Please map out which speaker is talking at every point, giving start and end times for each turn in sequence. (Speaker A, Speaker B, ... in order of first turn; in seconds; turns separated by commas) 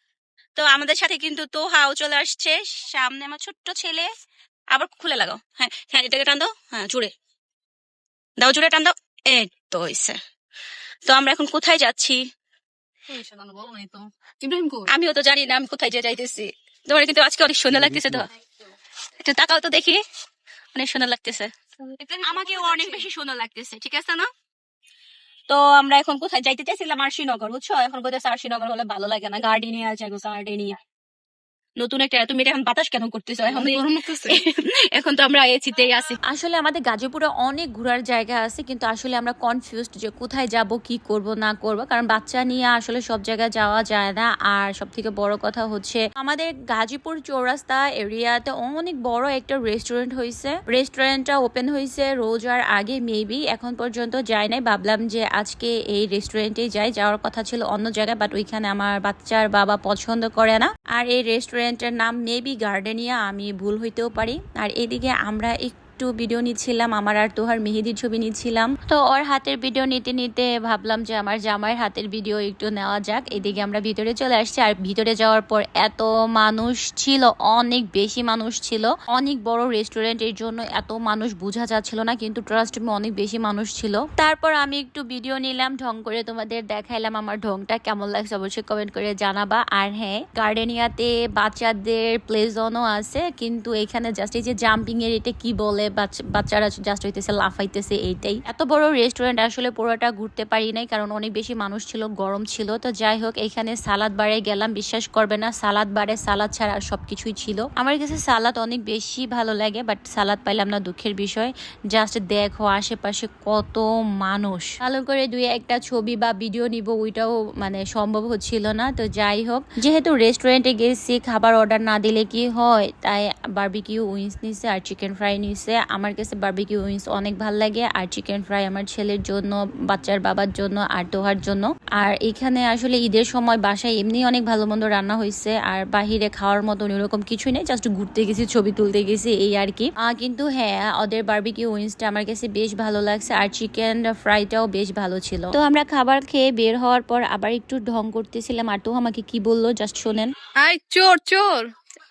Speaker A: 0.6-4.1, Speaker A: 4.7-7.1, Speaker A: 8.4-10.2, Speaker A: 11.1-12.2, Speaker B: 13.1-13.9, Speaker A: 13.2-13.9, Speaker B: 14.4-14.9, Speaker A: 14.9-18.3, Speaker A: 19.2-20.0, Speaker A: 20.7-24.3, Speaker B: 22.2-23.0, Speaker A: 25.5-30.8, Speaker A: 31.8-36.1, Speaker B: 33.5-34.4, Speaker C: 36.3-150.3, Speaker B: 150.6-151.7